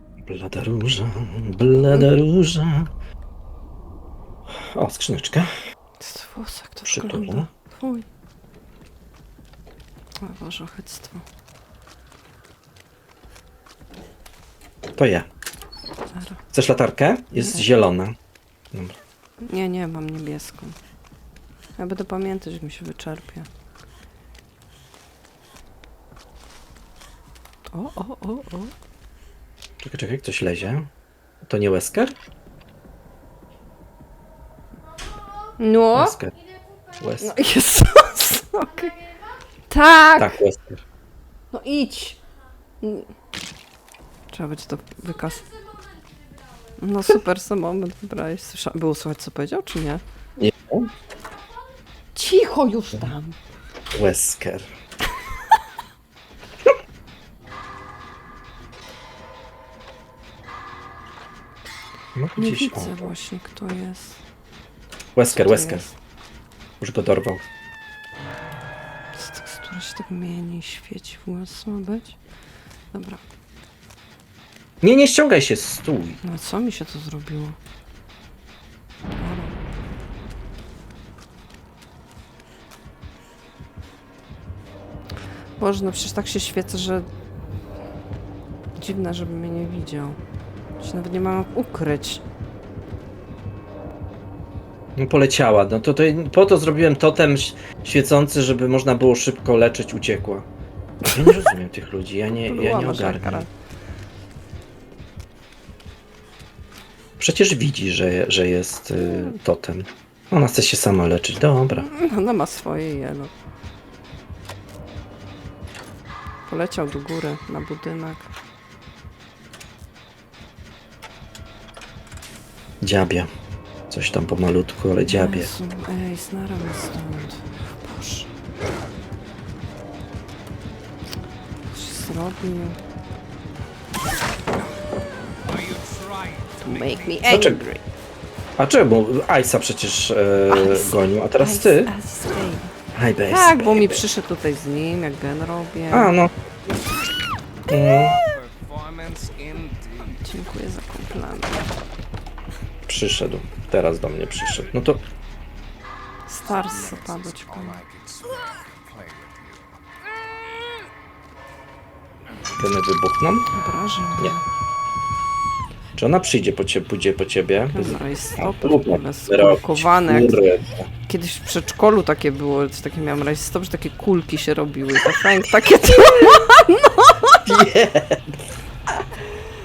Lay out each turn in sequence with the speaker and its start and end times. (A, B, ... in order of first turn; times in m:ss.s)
0:00.2-0:02.9 A
0:04.5-0:05.5 A
0:06.0-0:08.1 B
0:06.8-0:07.5 A
0:10.2-0:11.2 B
0:15.0-0:15.3 A
0:16.1-0:16.4 B
0:16.5-0:18.2 A
0:18.7-0:19.0 A
0:19.4-0:20.8 B
0:21.8-0:23.5 B
0:27.7-0:28.7 B
0:29.8-0:30.9 A
0:31.4-0:32.2 A
0:35.6-0:36.2 B
0:36.0-0:36.3 A
0:37.0-0:37.3 A
0:37.2-0:39.0 B
0:39.7-0:40.3 B
0:40.2-0:40.8 A
0:41.5-0:42.2 B
0:42.8-0:43.1 B
0:44.3-0:45.5 B
0:46.8-0:50.0 B
0:50.4-0:50.9 A
0:52.1-0:53.4 B
0:53.9-0:54.7 A
1:02.1-1:03.1 A
1:02.4-1:04.2 B
1:05.1-1:05.9 A
1:05.3-1:05.9 B
1:06.8-1:07.4 A
1:09.1-1:12.2 B
1:12.9-1:13.2 B
1:14.8-1:16.2 A
1:16.2-1:17.6 B
1:19.2-1:19.6 B
1:25.6-1:27.1 B
1:28.8-1:30.2 B
1:30.8-1:32.2 B
1:35.0-1:40.5 A
1:41.1-1:43.5 A
1:42.4-1:43.5 B
1:47.2-1:51.9 A
1:51.8-1:53.3 B
1:56.5-1:58.3 B
2:02.8-2:03.3 A
2:03.9-2:05.5 A
2:05.0-2:08.3 B
2:11.7-2:12.8 B
2:15.4-2:17.3 C
2:16.6-2:17.8 B
2:17.3-2:17.6 A
2:18.6-2:21.9 A
2:20.5-2:22.8 B
2:22.9-2:24.0 A
2:23.3-2:26.1 B
2:25.9-2:26.3 A
2:27.7-2:28.2 A
2:27.8-2:30.3 C
2:30.2-2:31.7 B
2:32.8-2:35.0 A
2:36.3-2:37.8 B
2:36.4-2:39.7 C
2:42.6-2:43.5 A
2:43.5-2:44.4 B
2:46.0-2:50.9 A
2:47.7-2:50.4 B
2:51.1-2:57.5 B
2:57.5-2:58.5 A